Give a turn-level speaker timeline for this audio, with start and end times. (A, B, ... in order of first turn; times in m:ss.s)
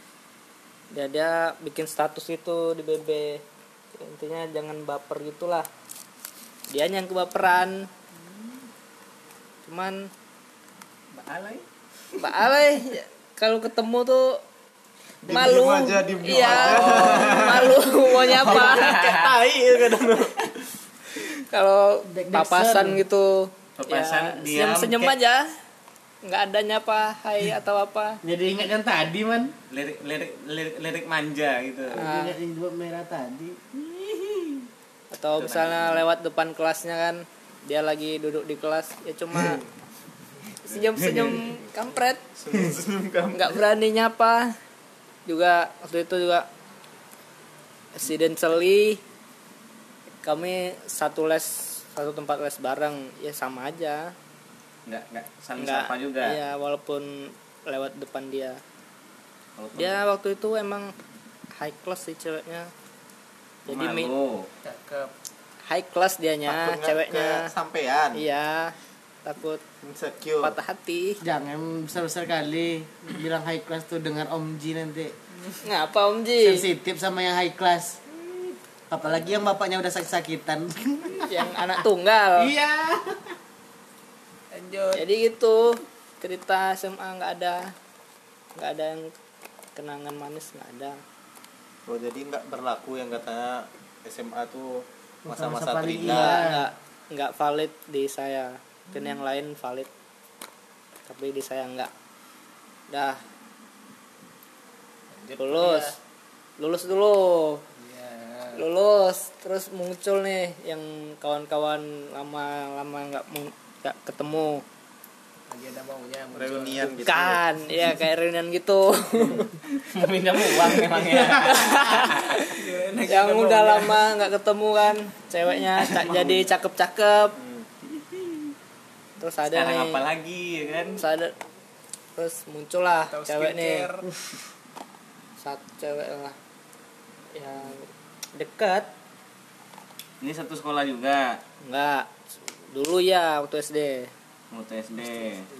0:00.9-0:03.4 A
0:03.9-0:05.7 A
0:06.7-0:07.9 A
0:09.6-0:10.1 A
0:11.1-0:11.6 B
0:12.2-0:14.4 A
0:15.2-0:20.4 C
0:15.2-0:19.1 A
0:16.4-0:17.8 D
0:18.3-0:19.4 D
0:21.2-0:25.5 A
0:22.1-0:23.0 E
0:23.8-0:25.1 D
0:26.2-0:28.2 A
0:28.2-0:29.5 E
0:29.7-0:32.1 D
0:31.9-0:33.6 E
0:31.9-0:32.4 A
0:33.8-0:34.4 D
0:35.1-0:39.6 A
0:35.4-0:36.0 D
0:40.6-0:42.2 A
0:40.7-0:41.5 D
0:42.4-0:43.6 C
0:43.3-0:44.6 A
0:45.2-0:46.5 A
0:48.0-0:49.0 A
0:50.2-0:54.1 A
0:54.9-0:56.4 D
0:55.6-0:58.6 A
0:59.6-1:00.0 D
0:59.8-1:00.9 A
1:01.6-1:02.7 A
1:03.7-1:04.1 A
1:03.7-1:04.5 D
1:04.6-1:05.1 B
1:05.7-1:07.5 A
1:06.4-1:08.2 C
1:08.1-1:09.6 A
1:09.8-1:10.6 C
1:10.4-1:11.2 A
1:11.2-1:15.1 E
1:15.6-1:16.6 A
1:16.4-1:18.0 E
1:18.9-1:21.4 E
1:21.2-1:22.5 A
1:22.4-1:23.0 B
1:24.5-1:25.0 B
1:24.9-1:27.7 A
1:28.6-1:29.1 A
1:29.8-1:31.0 A
1:31.9-1:36.4 C
1:35.2-1:36.6 E
1:36.0-1:39.9 A
1:41.1-1:41.9 A
1:42.9-1:43.2 A
1:45.1-1:46.0 B
1:45.4-1:46.0 A
1:46.6-1:47.6 A
1:47.8-1:48.6 B
1:48.5-1:54.6 A
1:55.5-1:56.9 B
1:56.3-1:57.4 C
1:57.0-1:59.5 A
1:59.8-2:02.4 D
2:01.2-2:07.4 A
2:02.4-2:04.0 B
2:09.2-2:10.0 A
2:09.5-2:11.0 D
2:11.0-2:11.3 A
2:12.2-2:13.9 A
2:13.1-2:14.1 B
2:15.4-2:16.4 A
2:17.4-2:18.9 A
2:20.2-2:21.4 D
2:21.6-2:22.1 A
2:22.7-2:24.1 A
2:24.5-2:25.5 D